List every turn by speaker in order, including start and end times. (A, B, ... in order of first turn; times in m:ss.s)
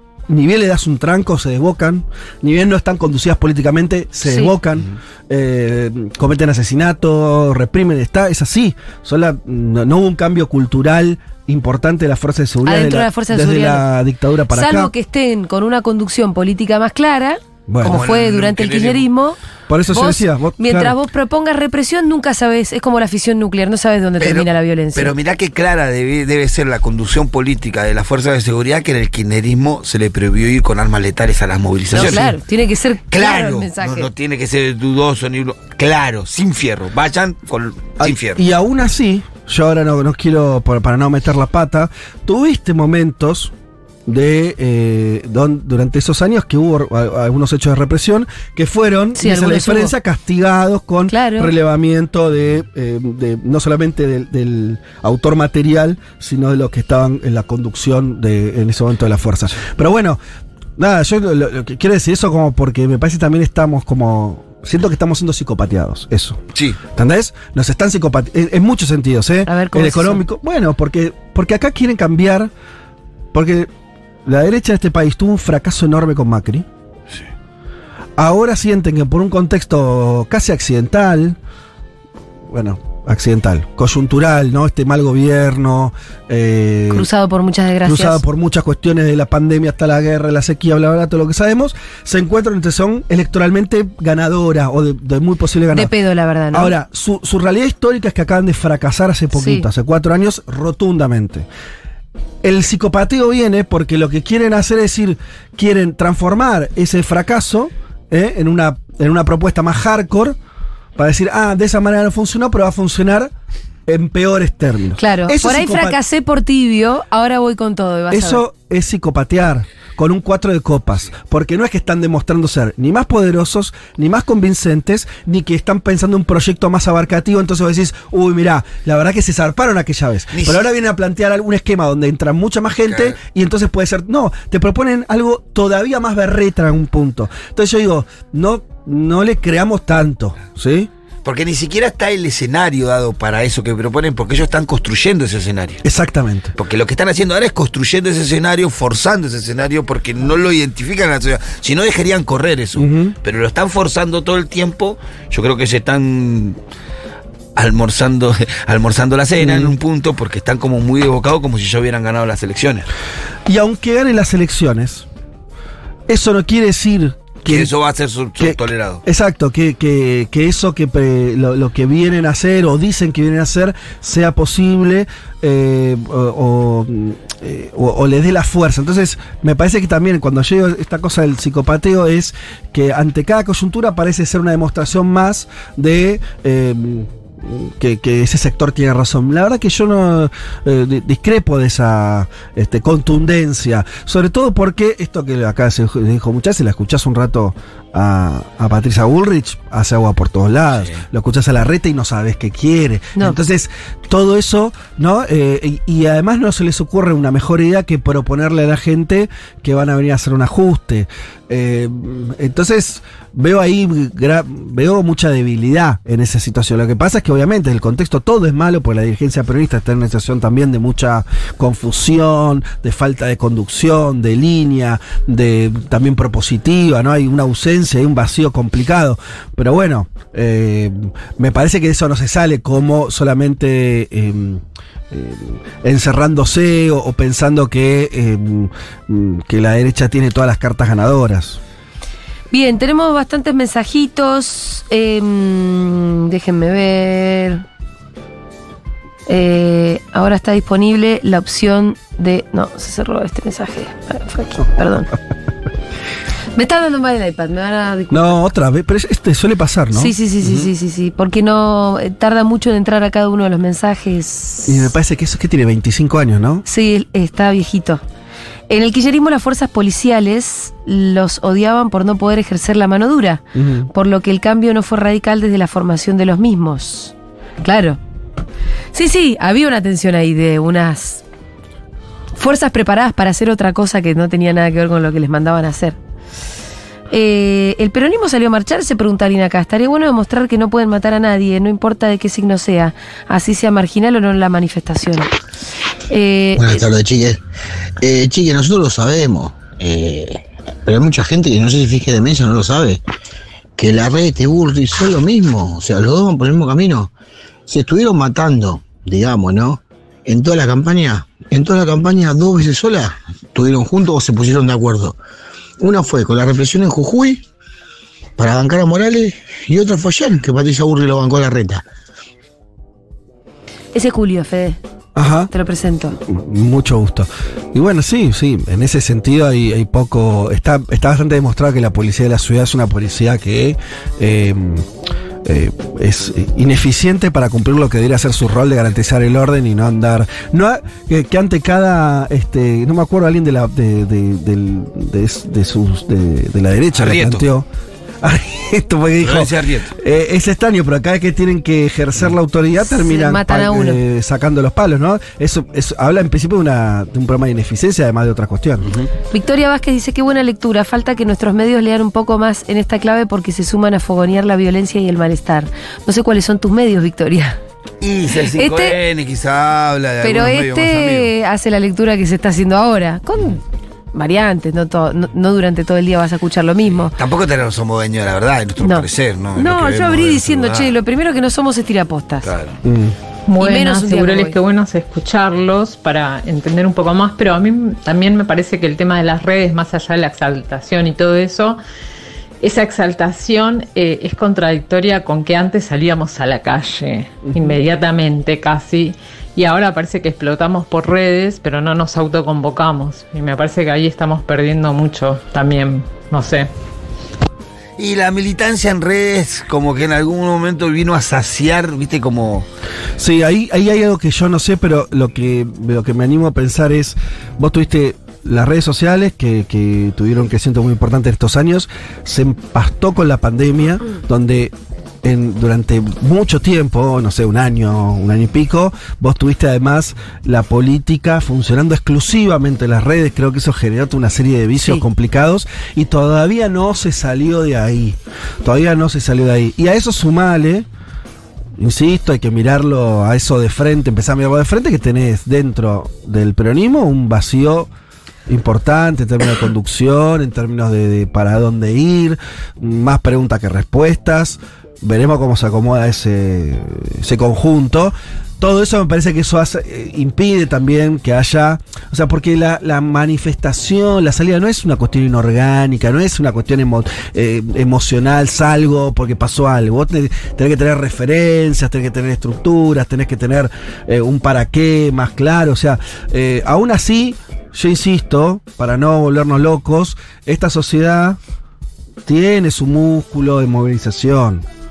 0:00.3-0:14.9 A
0:04.2-0:04.5 B
0:12.6-0:13.8 B
0:14.5-0:19.4 B
0:17.7-0:18.0 A
0:17.8-0:19.1 C
0:19.7-0:20.9 A
0:19.9-0:25.1 B
0:24.2-0:32.4 C
0:31.9-0:34.1 B
0:31.9-0:32.2 A
0:33.1-0:38.4 C
0:38.0-0:43.5 A
0:44.1-1:00.2 A
0:49.2-0:49.9 B
0:51.1-0:51.5 B
1:00.8-1:12.5 A
1:09.5-1:10.2 B
1:13.3-1:13.7 A
1:14.2-1:16.7 A
1:18.2-1:21.4 A
1:22.5-1:27.1 A
1:26.9-1:28.2 B
1:27.8-1:35.9 A
1:35.7-1:36.7 B
1:36.5-1:41.5 A
1:39.3-1:39.6 B
1:42.4-1:50.4 A
1:51.0-1:53.3 A
1:53.9-1:56.0 A
1:55.0-1:58.4 B
1:58.1-2:20.9 A
2:10.3-2:10.6 C
2:12.8-2:13.2 C
2:21.2-2:25.8 C
2:25.8-2:26.5 A
2:26.5-2:36.6 C
2:32.8-2:33.1 A
2:37.6-2:42.8 C
2:39.4-2:39.8 A
2:43.5-2:45.0 A
2:46.1-2:47.7 A
2:47.4-2:49.0 C
2:48.4-4:01.6 A
3:20.7-3:21.0 C
4:02.5-4:07.6 B
4:09.3-4:15.1 B
4:16.6-4:18.4 B
4:18.1-4:20.7 A
4:19.9-4:24.9 B
4:24.6-4:26.6 A
4:26.6-4:28.0 B
4:28.7-4:38.0 B
4:33.5-4:33.9 A
4:38.9-4:41.2 B
4:42.3-4:46.0 B
4:47.1-4:55.3 B
4:56.1-4:56.8 B
4:56.6-4:57.4 D
4:58.0-5:03.0 D
5:03.8-5:07.1 D
5:07.7-5:15.2 D
5:15.8-5:17.4 D
5:18.4-5:21.8 D
5:23.9-5:24.8 B
5:25.2-5:25.5 A
5:25.5-5:26.2 B
5:26.3-5:34.9 A
5:35.4-5:47.7 A
5:46.9-5:47.4 C
5:48.2-5:58.9 A
5:49.2-5:49.9 C
5:52.8-5:54.0 B
5:58.8-5:59.1 C
5:59.3-6:07.6 B
6:08.0-6:11.3 C
6:08.5-6:09.0 B
6:10.2-6:13.6 B
6:14.1-6:17.1 B
6:17.0-6:20.9 C
6:18.8-6:22.5 B
6:22.4-6:22.8 C
6:22.8-6:23.2 A
6:23.5-6:31.8 E
6:23.6-6:24.6 B
6:32.6-6:46.7 E
6:37.4-6:37.7 A
6:48.0-6:52.7 C
6:53.2-7:04.7 A
7:05.2-7:20.9 A
7:21.8-7:27.9 A
7:28.5-8:01.4 A
8:02.2-8:04.6 A